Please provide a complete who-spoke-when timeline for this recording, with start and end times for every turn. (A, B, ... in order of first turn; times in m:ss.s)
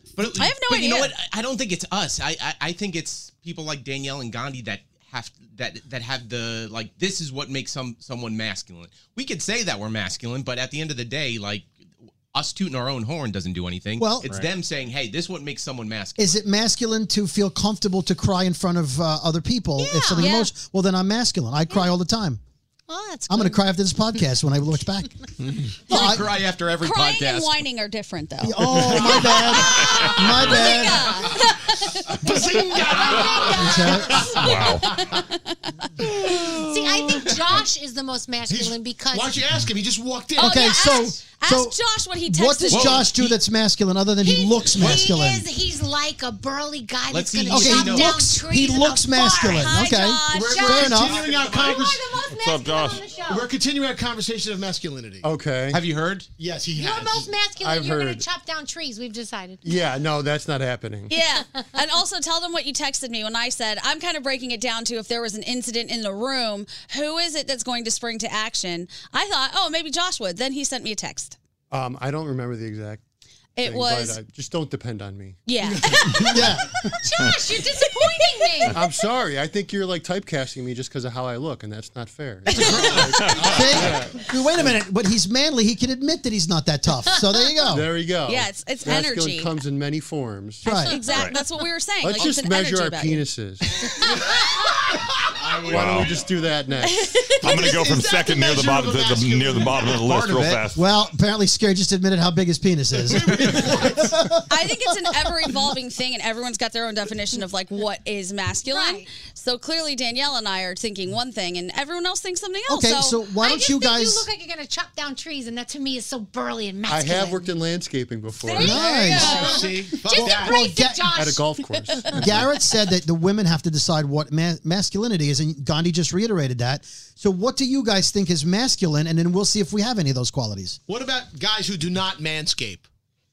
0:00.2-0:11.7 A
0:00.3-0:01.1 B
0:12.3-0:16.4 A
0:14.0-0:14.3 C
0:16.2-0:22.4 C
0:19.8-0:20.4 D
0:20.2-0:20.5 B
0:22.9-0:23.7 D
0:23.3-0:25.2 C
0:25.4-0:27.6 A
0:25.9-0:26.4 C
0:26.8-0:32.0 B
0:28.4-0:31.1 C
0:32.1-0:35.2 E
0:32.8-0:34.1 D
0:33.1-0:33.6 B
0:33.5-0:34.3 C
0:34.4-0:35.7 B
0:34.4-0:34.9 F
0:36.1-0:39.4 D
0:38.5-0:40.8 E
0:40.4-0:43.1 B
0:40.4-0:45.4 C
0:42.7-0:43.4 A
0:44.2-0:53.5 D
0:47.1-0:48.2 A
0:47.5-0:51.2 C
0:49.4-0:50.7 B
0:50.3-0:52.2 E
0:52.3-0:53.1 F
0:53.3-0:55.2 E
0:55.2-0:55.8 G
0:55.7-0:56.3 A
0:56.4-0:57.3 E
0:56.7-0:59.6 D
0:57.6-0:58.2 G
0:59.6-1:01.1 G
1:01.1-1:11.4 B
1:11.7-1:13.0 G
1:13.6-1:14.2 B
1:13.6-1:15.4 G
1:15.4-1:16.9 B
1:15.6-1:16.4 E
1:16.2-1:16.6 C
1:17.0-1:18.8 D
1:17.8-1:18.8 B
1:18.6-1:24.8 G
1:22.5-1:23.8 B
1:23.0-1:23.6 F
1:23.4-1:27.9 C
1:27.7-1:30.7 G
1:28.2-1:29.6 B
1:30.6-1:31.0 C
1:30.6-1:33.3 B
1:31.0-1:31.4 F
1:32.0-1:33.6 G
1:35.4-1:37.1 G
1:35.5-1:36.2 F
1:36.8-1:37.7 B
1:37.2-1:40.0 E
1:37.4-1:40.8 F
1:40.1-1:45.4 C
1:43.0-1:44.0 E
1:44.5-1:53.2 B
1:48.7-1:49.1 D
1:52.7-1:54.3 C
1:53.4-1:57.5 D
1:56.9-1:59.0 G
1:58.4-1:59.7 B
1:58.6-1:59.6 C
1:59.0-2:00.7 E
1:59.2-2:02.3 D
2:00.2-2:01.2 C
2:01.1-2:02.4 G
2:02.1-2:10.8 C
2:10.9-2:12.8 E